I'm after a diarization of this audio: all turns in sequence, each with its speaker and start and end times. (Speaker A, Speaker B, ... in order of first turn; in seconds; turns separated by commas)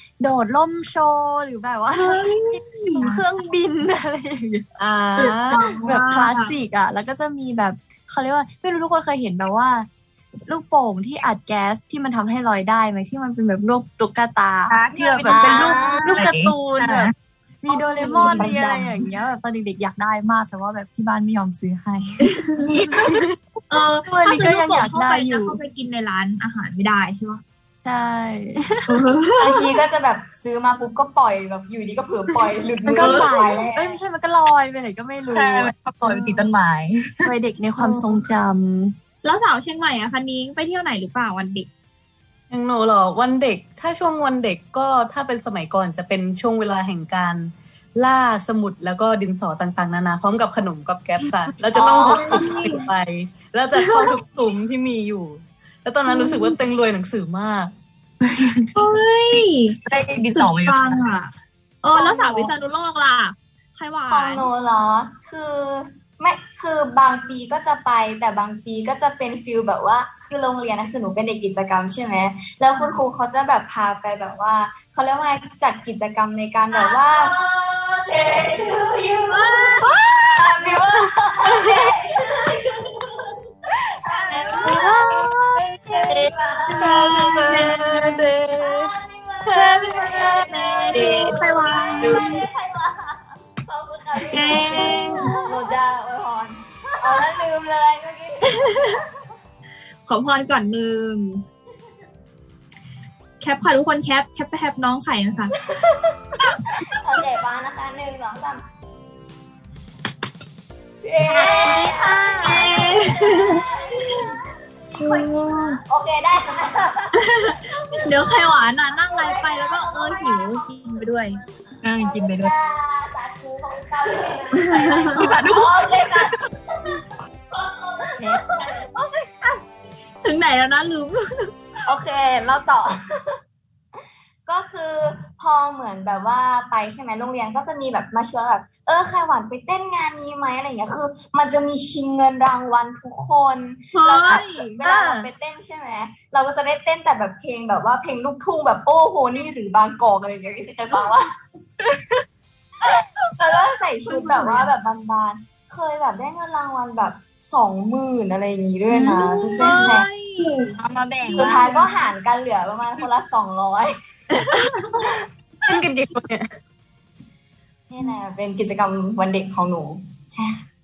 Speaker A: 0.2-4.6, Speaker B: 1.9-3.0, Speaker C: 3.0-3.2, Speaker D: 4.8-5.7, Speaker B: 5.5-6.5, Speaker A: 5.8-9.9, Speaker A: 10.5-22.2, Speaker C: 14.7-17.1, Speaker E: 15.3-16.2, Speaker B: 17.7-18.6, Speaker C: 18.3-19.0, Speaker B: 22.2-22.7, Speaker C: 22.7-23.2, Speaker B: 23.7-27.4, Speaker A: 24.1-25.6, Speaker A: 27.8-29.0, Speaker B: 28.9-29.7, Speaker E: 29.4-34.0, Speaker A: 32.8-36.1, Speaker B: 33.0-33.3, Speaker C: 35.3-37.3, Speaker A: 37.2-38.9, Speaker B: 37.8-38.2, Speaker B: 39.2-41.7, Speaker D: 42.5-57.7, Speaker E: 51.7-52.3, Speaker B: 52.1-52.9, Speaker B: 53.8-54.1, Speaker B: 56.0-56.5, Speaker B: 58.7-59.8, Speaker C: 59.9-61.0, Speaker B: 60.3-61.3, Speaker B: 61.8-64.5, Speaker A: 61.9-62.5, Speaker E: 64.1-77.3, Speaker C: 76.7-82.6, Speaker B: 79.3-80.0, Speaker E: 80.3-82.2, Speaker E: 84.1-84.9, Speaker C: 84.1-87.9, Speaker B: 84.4-85.5, Speaker A: 84.5-85.3, Speaker E: 86.0-86.9, Speaker B: 86.8-88.0, Speaker D: 87.0-88.9, Speaker E: 88.5-99.0, Speaker B: 89.5-92.4, Speaker C: 90.9-91.3, Speaker B: 94.3-95.3, Speaker A: 94.5-95.2, Speaker B: 98.6-98.8, Speaker B: 100.0-101.4, Speaker B: 103.4-105.5, Speaker E: 105.8-108.6, Speaker E: 111.0-114.3, Speaker B: 111.3-113.6, Speaker A: 111.4-112.7, Speaker B: 115.0-115.8, Speaker E: 115.9-117.2, Speaker B: 117.2-121.4, Speaker E: 118.0-118.5, Speaker E: 119.1-120.6, Speaker C: 121.8-122.5, Speaker E: 121.9-126.3, Speaker B: 124.8-125.3, Speaker C: 125.1-126.5, Speaker B: 128.2-129.6, Speaker B: 130.2-131.5, Speaker E: 131.8-133.0, Speaker E: 134.4-151.3, Speaker B: 143.9-144.8, Speaker C: 144.8-145.2, Speaker E: 153.4-160.1, Speaker B: 154.0-154.7, Speaker A: 159.0-159.9, Speaker B: 159.1-160.6, Speaker C: 160.8-161.7, Speaker B: 161.3-162.1, Speaker E: 161.3-163.9, Speaker B: 164.4-164.8, Speaker D: 165.7-166.5, Speaker E: 167.9-170.6